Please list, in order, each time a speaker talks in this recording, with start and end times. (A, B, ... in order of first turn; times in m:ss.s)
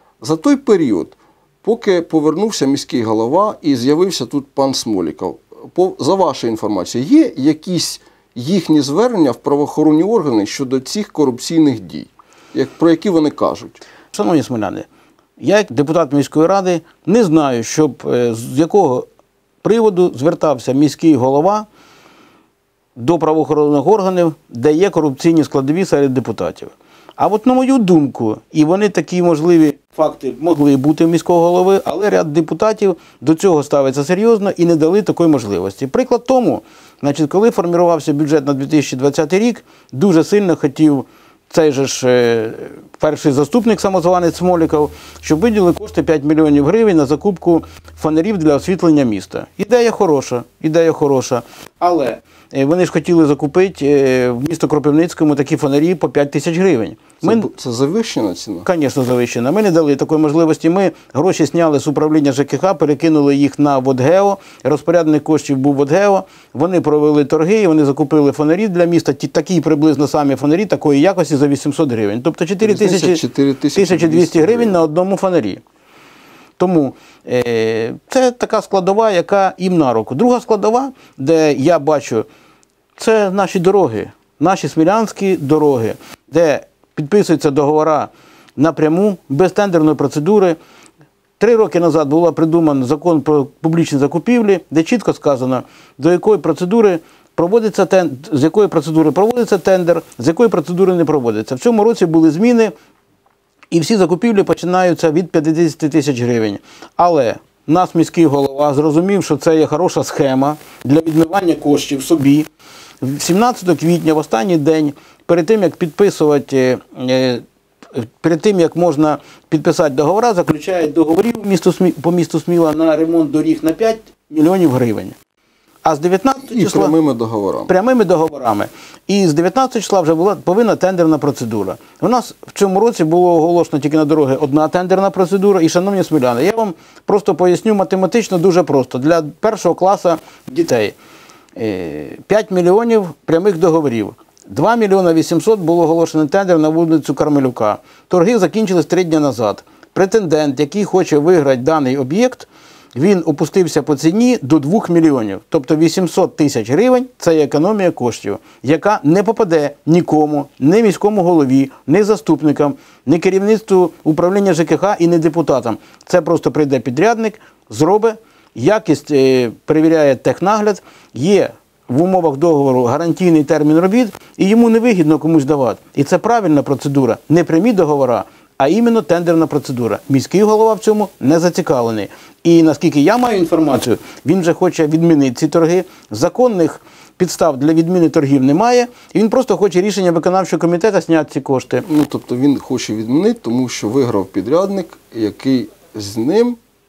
0:00.2-0:13.8 A
0:14.1-0:14.9 B
0:15.4-0:19.1 B
0:19.6-0:21.7 B
0:23.0-0:57.5 B
0:57.2-0:58.7 A
0:58.6-1:13.2 B
1:12.6-1:14.8 A
1:13.7-1:15.6 B
1:16.6-1:22.3 B
1:23.0-1:30.6 B
1:31.4-1:42.7 B
1:43.7-1:52.5 B
1:53.0-1:57.4 B
1:58.0-2:05.2 B
2:05.8-2:07.0 B
2:06.5-2:07.7 A
2:07.7-2:21.0 B
2:21.6-3:11.9 B
3:11.8-3:16.6 A